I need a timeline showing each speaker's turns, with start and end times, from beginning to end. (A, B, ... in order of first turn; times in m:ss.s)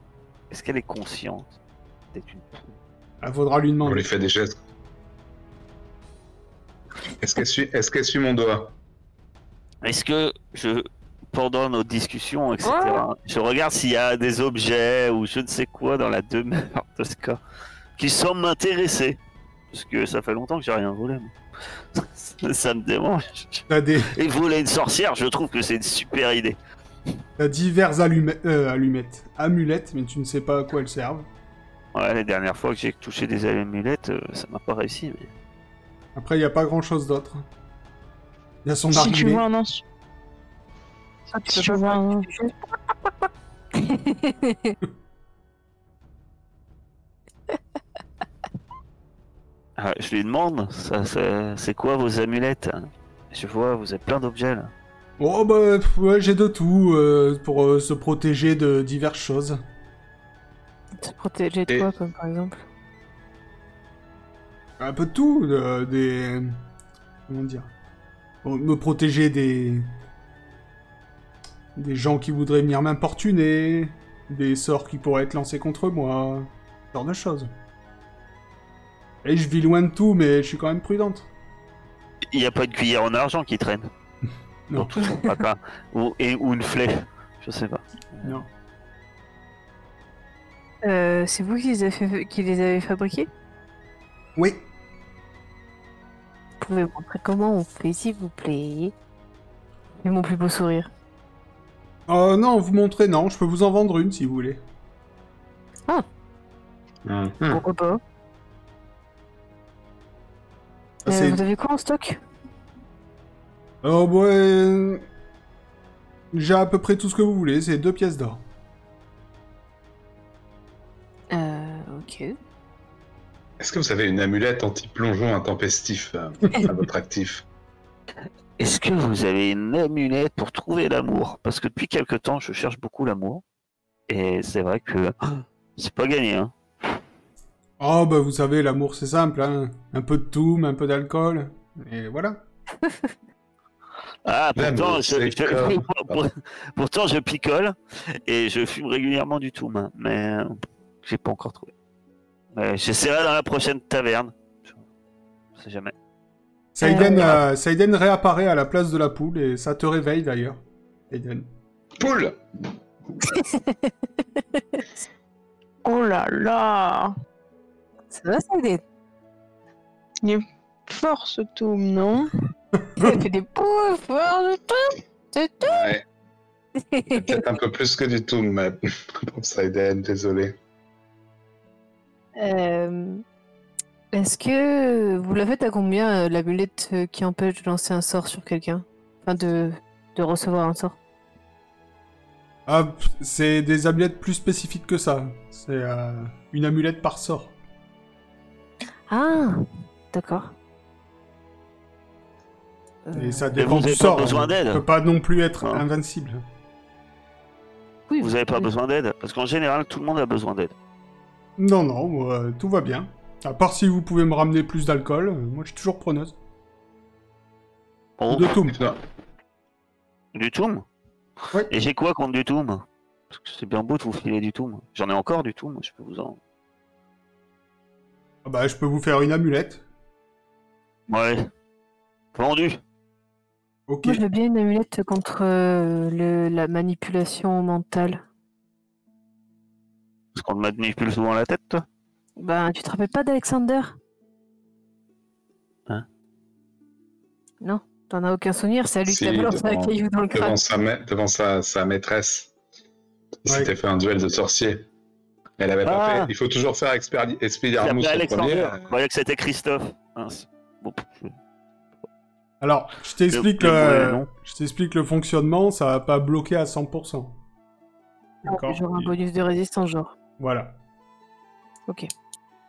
0:00.5-0:01.6 A
0:02.1-0:02.8 A
0:03.2-0:04.1 B
0:03.8-0:04.6 C
0:07.2-0:08.7 C
0:09.8-0:17.4 A
0:18.0-0:19.2 A
0:19.7-0:21.3 A
0:21.9-0:26.6 A
0:23.7-0:24.1 B
0:27.4-0:31.3 B
0:31.9-0:35.3 A
0:36.2-0:37.5 B
0:38.6-0:39.4 B
0:38.9-0:39.8 D
0:41.3-0:42.6 E
0:41.4-0:42.3 D
0:43.8-0:44.8 E
0:49.8-0:54.7 A
0:55.2-0:59.6 B
1:01.0-1:02.6 E
1:04.8-1:06.6 B
1:07.3-1:07.7 B
1:08.4-1:09.9 B
1:11.8-1:17.5 B
1:19.2-1:21.3 B
1:22.3-1:23.9 A
1:24.7-1:25.0 B
1:24.7-1:28.4 A
1:25.0-1:25.3 E
1:28.2-1:28.5 B
1:30.8-1:33.3 E
1:34.4-1:34.6 B
1:36.6-1:38.9 E
1:40.0-1:40.9 E
1:42.1-1:44.6 B
1:47.0-1:47.6 C
1:47.5-1:48.0 E
1:51.0-1:51.4 B
1:51.1-1:52.2 E
1:53.8-1:55.0 B
1:56.3-1:58.4 B
2:01.3-2:02.4 E
2:03.6-2:07.4 C
2:08.6-2:13.4 A
2:14.1-2:16.5 A
2:17.8-2:22.4 B
2:24.2-2:31.7 A
2:24.6-2:26.2 C
2:32.5-2:34.8 A
2:35.6-2:35.9 A
2:36.8-2:41.5 B
2:36.8-2:37.3 E
2:37.0-2:37.4 A
2:42.0-2:42.4 C
2:43.3-2:43.9 E
2:44.6-2:44.8 E
2:45.8-2:47.1 D
2:48.1-2:48.8 E
2:50.2-2:52.3 D
2:53.0-2:55.9 E
2:55.6-2:56.0 C
2:56.8-2:57.4 E
2:57.1-3:00.6 C
3:02.4-3:03.2 E
3:04.1-3:11.0 E
3:12.7-3:17.6 B
3:19.1-3:20.5 E
3:23.1-3:23.5 E
3:23.1-3:26.4 B
3:23.6-3:24.8 A
3:28.1-3:28.7 E
3:28.2-3:30.8 A
3:31.6-3:36.4 B
3:38.2-3:38.6 A
3:38.3-3:38.8 B
3:38.7-3:39.0 C
3:40.4-3:40.9 A
3:41.7-3:46.4 A
3:48.4-3:49.8 B
3:51.1-3:51.5 A
3:52.4-3:52.8 A
3:53.9-3:54.2 B
3:54.0-3:58.2 E
4:00.4-4:01.8 A
4:02.4-4:04.0 E
4:07.6-4:10.6 E
4:09.1-4:12.5 C
4:13.4-4:14.9 C
4:13.5-4:13.7 B
4:15.6-4:18.8 C
4:15.8-4:16.3 A
4:17.8-4:21.3 A
4:22.6-4:27.4 B
4:23.3-4:24.3 A
4:28.4-4:29.1 B
4:28.5-4:30.2 E
4:30.4-4:30.8 B